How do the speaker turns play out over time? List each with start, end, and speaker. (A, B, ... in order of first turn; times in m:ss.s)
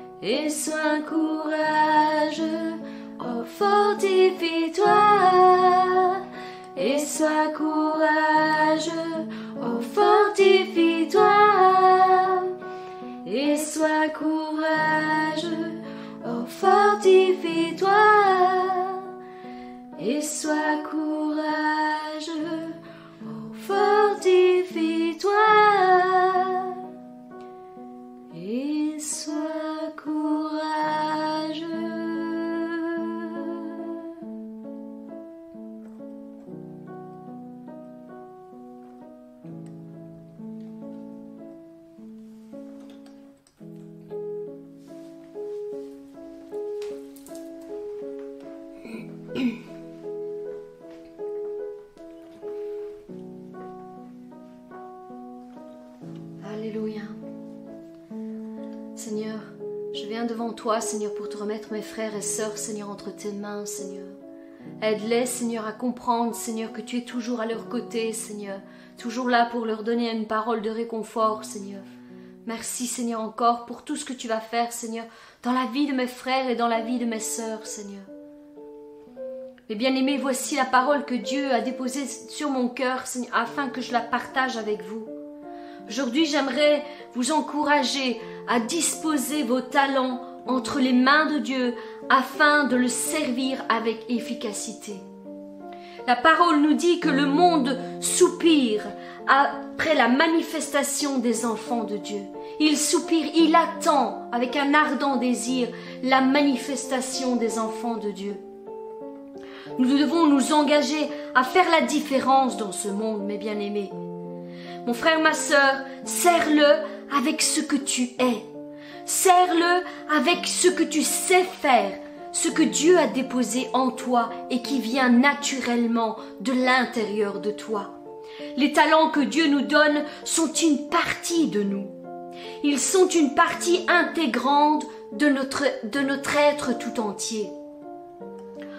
0:00.2-0:12.6 A
0:13.2-0:19.1 A
0:20.0-0:26.8 A
0:28.3-0:33.9 A
0:56.4-0:57.2 A
0:59.0-1:04.2 A
1:04.8-1:11.8 A
1:12.5-1:18.1 A
1:19.7-1:25.1 A
1:25.9-1:35.0 A
1:36.1-1:48.4 A
1:49.8-1:53.9 A
1:54.8-1:58.5 A
1:59.0-2:07.9 A
2:08.6-2:11.9 A
2:12.6-2:17.5 A